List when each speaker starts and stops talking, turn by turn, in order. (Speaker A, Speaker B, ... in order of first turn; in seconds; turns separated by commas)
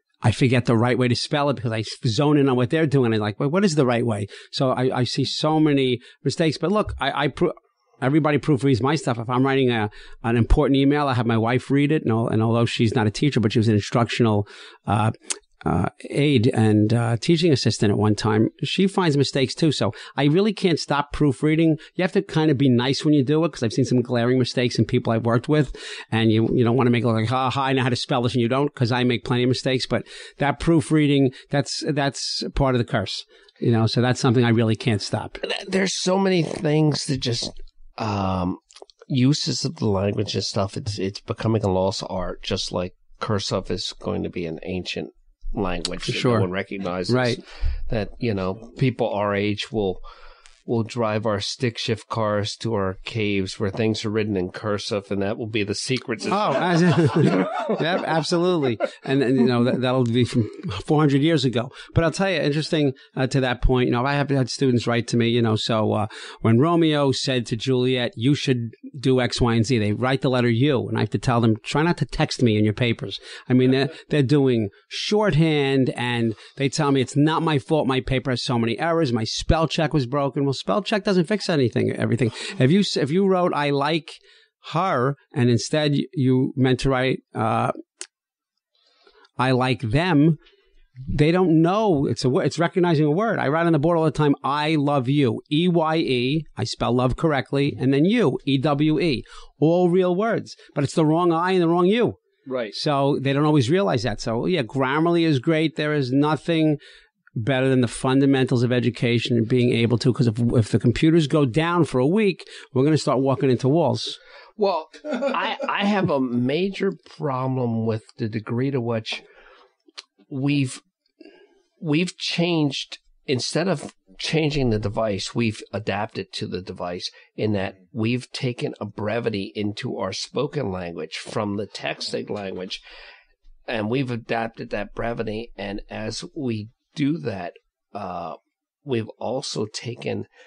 Speaker A: 0.2-35.4, Speaker B: 35.4-50.0, Speaker A: 46.0-46.5, Speaker A: 47.1-47.4, Speaker B: 50.7-57.8, Speaker A: 56.3-87.7, Speaker A: 89.4-90.4, Speaker A: 91.1-102.2, Speaker B: 102.5-102.7, Speaker A: 102.7-106.8, Speaker A: 107.3-114.2, Speaker B: 114.6-119.2, Speaker B: 120.3-120.8, Speaker B: 121.8-132.8, Speaker B: 133.7-140.3